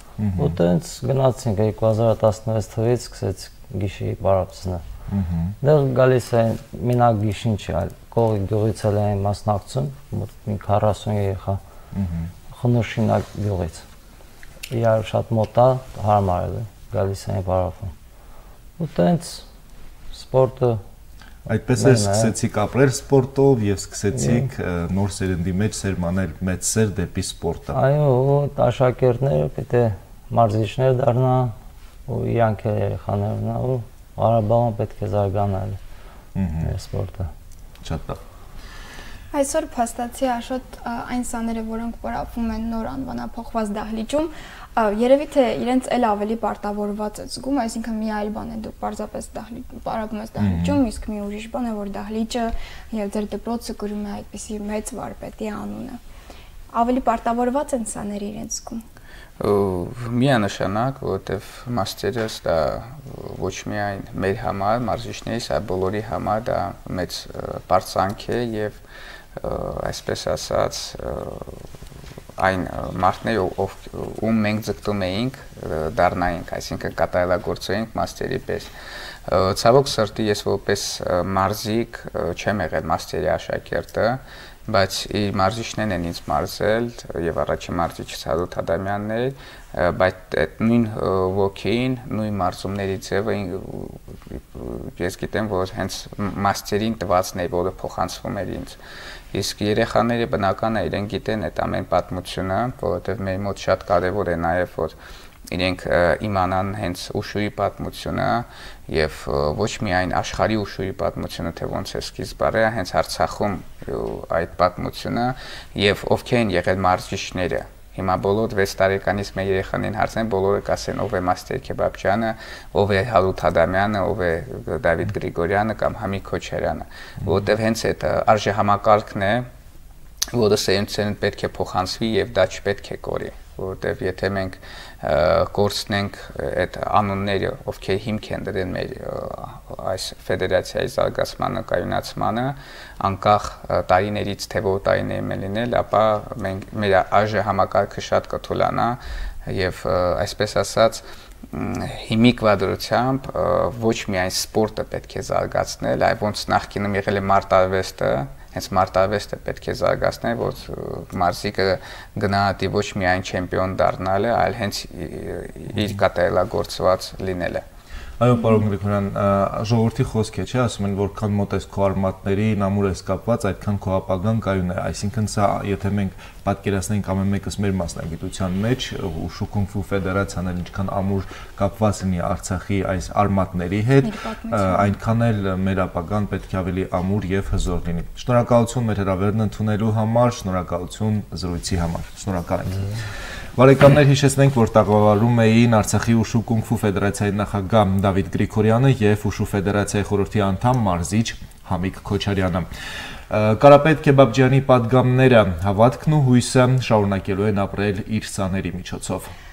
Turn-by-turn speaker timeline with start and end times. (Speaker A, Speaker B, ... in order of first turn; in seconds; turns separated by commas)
Speaker A: 0.2-0.6, Speaker B: 0.4-4.8, Speaker A: 5.1-5.5, Speaker B: 5.6-11.6, Speaker A: 11.9-12.3, Speaker B: 12.5-13.8, Speaker B: 14.7-17.9, Speaker B: 18.8-19.4, Speaker B: 20.1-20.8, Speaker A: 21.4-27.8, Speaker B: 21.8-22.3, Speaker B: 24.1-24.5, Speaker B: 27.7-31.5, Speaker B: 32.1-35.8, Speaker A: 36.3-36.7, Speaker B: 36.6-37.3, Speaker A: 37.8-38.2, Speaker C: 39.3-56.0, Speaker A: 50.4-50.8, Speaker C: 56.7-58.8, Speaker D: 59.4-68.8, Speaker D: 69.4-71.6, Speaker D: 72.4-78.7, Speaker D: 79.3-98.8, Speaker D: 99.3-105.0, Speaker D: 105.5-129.5, Speaker D: 130.3-167.6, Speaker A: 168.2-192.9, Speaker C: 184.0-184.9, Speaker A: 193.6-202.7, Speaker A: 203.3-209.3